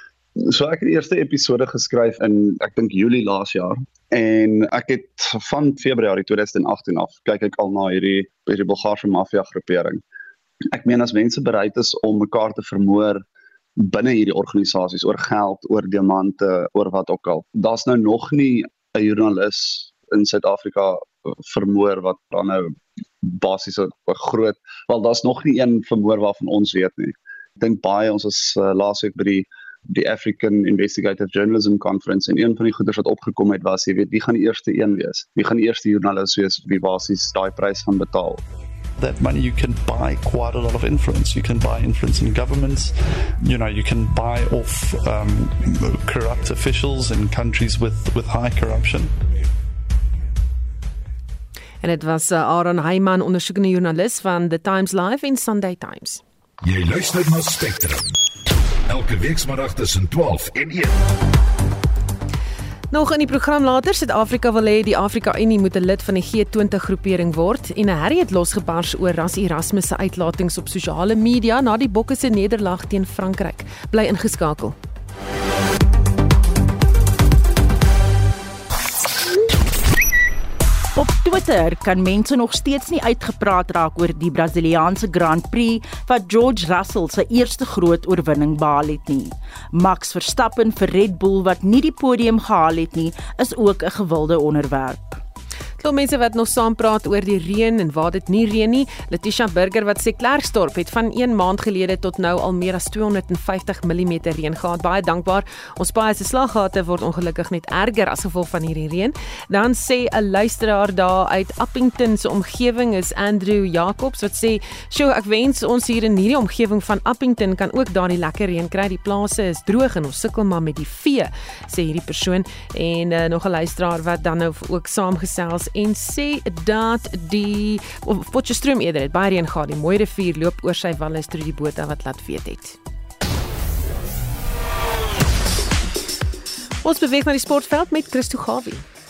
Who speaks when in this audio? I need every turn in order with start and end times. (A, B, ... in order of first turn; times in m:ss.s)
0:00.4-0:10.0 A
0:10.7-0:13.2 A
0:13.8-0:38.4 A
0:39.0-0:49.1 B
0:51.8-0:56.2 C
0:56.6-0:58.1 D
0:58.9-1:00.9 D
1:02.9-1:14.8 C
1:21.0-1:35.2 E
1:35.8-2:12.8 C
2:16.8-2:18.8 C